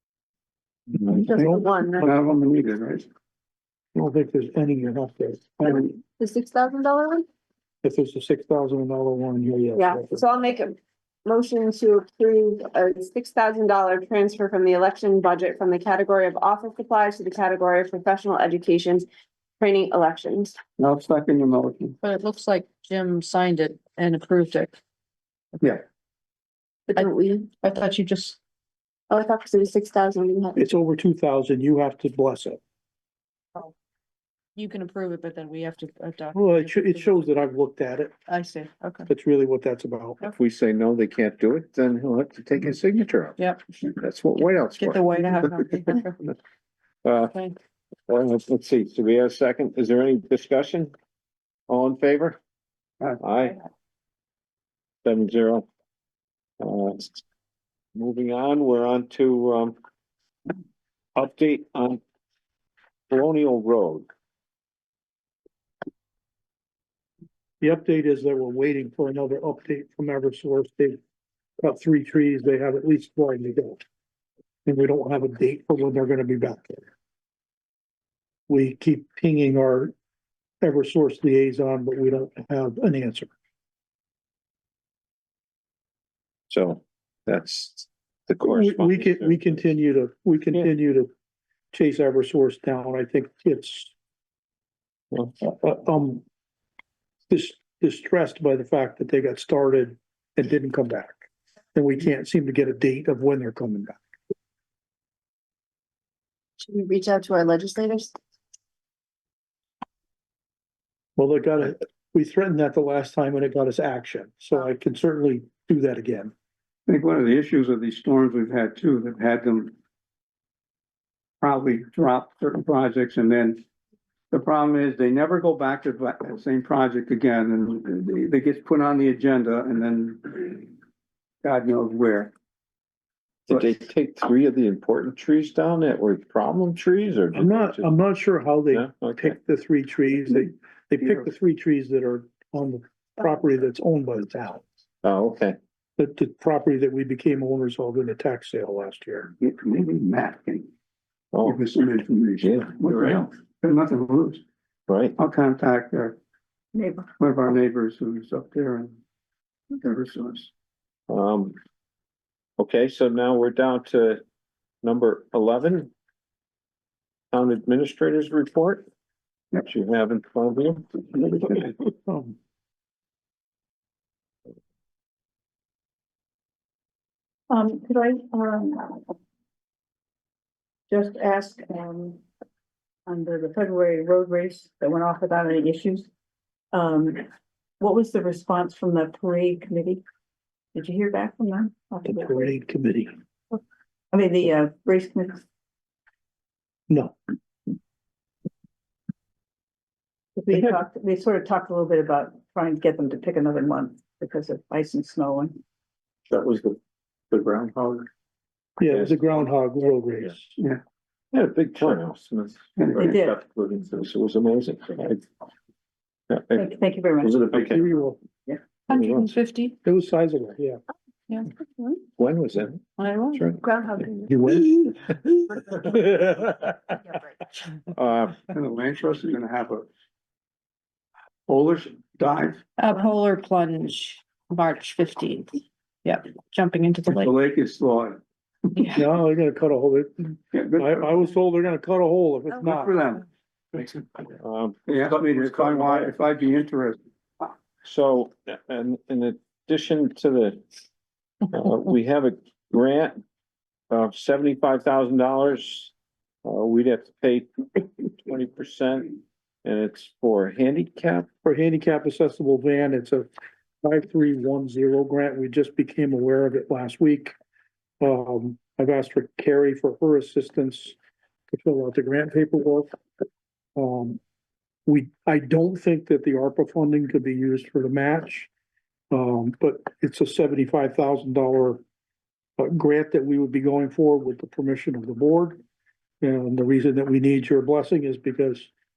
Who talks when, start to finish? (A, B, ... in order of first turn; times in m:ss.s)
0:00.9-0:02.4 A
0:01.3-0:02.0 B
0:01.4-0:03.1 C
0:03.9-0:05.9 A
0:05.6-0:05.9 C
0:06.2-0:07.2 B
0:07.8-0:10.2 A
0:09.7-0:10.7 B
0:11.2-0:19.0 B
0:19.6-0:20.5 B
0:20.8-0:22.0 C
0:22.0-0:24.8 D
0:26.9-0:28.4 D
0:27.0-0:27.3 B
0:29.1-0:30.5 B
0:30.6-0:32.6 A
0:34.6-0:37.3 D
0:36.3-0:38.1 A
0:38.3-0:39.1 D
0:39.1-0:40.2 A
0:40.3-0:45.3 E
0:44.7-0:46.3 D
0:47.0-0:47.4 E
0:47.2-0:47.5 D
0:48.1-0:50.9 E
0:51.7-0:52.4 E
0:53.2-0:53.6 E
0:55.0-0:55.7 E
0:56.6-0:57.2 E
0:57.9-0:59.7 E
1:01.2-1:02.0 E
1:03.1-1:04.1 E
1:07.6-1:11.0 A
1:11.6-1:13.8 A
1:14.6-1:16.8 A
1:18.5-1:19.9 A
1:20.6-1:23.3 A
1:26.5-1:29.6 E
1:28.4-1:31.1 A
1:31.7-1:33.9 A
1:35.4-1:36.2 A
1:37.3-1:41.2 A
1:41.7-1:44.0 A
1:46.7-1:47.8 B
1:51.2-1:56.3 A
1:56.9-1:59.7 C
2:01.4-2:03.6 C
2:04.3-2:10.7 C
2:11.4-2:12.3 C
2:13.5-2:17.9 E
2:17.3-2:24.6 A
2:18.7-2:19.4 E
2:25.0-2:25.6 E
2:26.0-2:29.3 A
2:29.4-2:30.7 C
2:31.3-2:31.6 E
2:31.4-2:34.4 C
2:32.4-2:33.3 E
2:34.9-2:35.2 E
2:35.2-2:36.2 C
2:36.7-2:37.1 F
2:37.2-2:39.0 C
2:39.7-2:40.5 C
2:41.1-2:41.6 E
2:42.6-2:44.2 E
2:44.8-2:45.9 E
2:47.3-2:48.8 E
2:49.6-2:51.7 E
2:52.0-2:52.4 A
2:57.5-2:59.1 F
3:00.9-3:02.2 F
3:03.1-3:06.1 F
3:06.7-3:07.3 F
3:07.8-3:10.0 F
3:10.7-3:12.5 F
3:12.0-3:13.1 A
3:14.1-3:15.4 F
3:16.9-3:17.2 A
3:20.4-3:25.6 F
3:20.5-3:20.8 E
3:26.3-3:26.8 E
3:27.3-3:28.0 E
3:28.8-3:30.5 A
3:28.9-3:29.2 E
3:31.3-3:35.2 E
3:32.8-3:33.1 C
3:33.0-3:33.4 F
3:36.3-3:36.6 E
3:36.5-3:37.5 F
3:37.2-3:37.8 E
3:37.5-3:38.2 A
3:38.9-3:39.8 D
3:38.9-3:39.3 E
3:39.8-3:40.8 A
3:42.2-3:43.6 E
3:43.0-3:43.4 D
3:44.3-3:45.0 A
3:45.7-3:46.8 E
3:47.9-3:48.4 E
3:48.5-3:49.9 C
3:51.5-3:52.6 C
3:52.8-3:57.3 D
3:57.1-3:58.2 C
3:58.9-4:03.0 A
4:00.5-4:01.2 C
4:02.6-4:04.0 C
4:04.4-4:05.0 E
4:04.9-4:07.5 C
4:05.8-4:06.1 E
4:07.8-4:10.6 E
4:11.5-4:13.2 E
4:13.9-4:15.9 E
4:16.4-4:21.3 E
4:21.4-4:23.3 A
4:23.8-4:27.3 A
4:28.0-4:31.0 A
4:31.5-4:32.9 A
4:33.8-4:34.2 A
4:34.8-4:38.5 A
4:39.1-4:41.8 A
4:42.6-4:45.6 A
4:46.2-4:48.7 A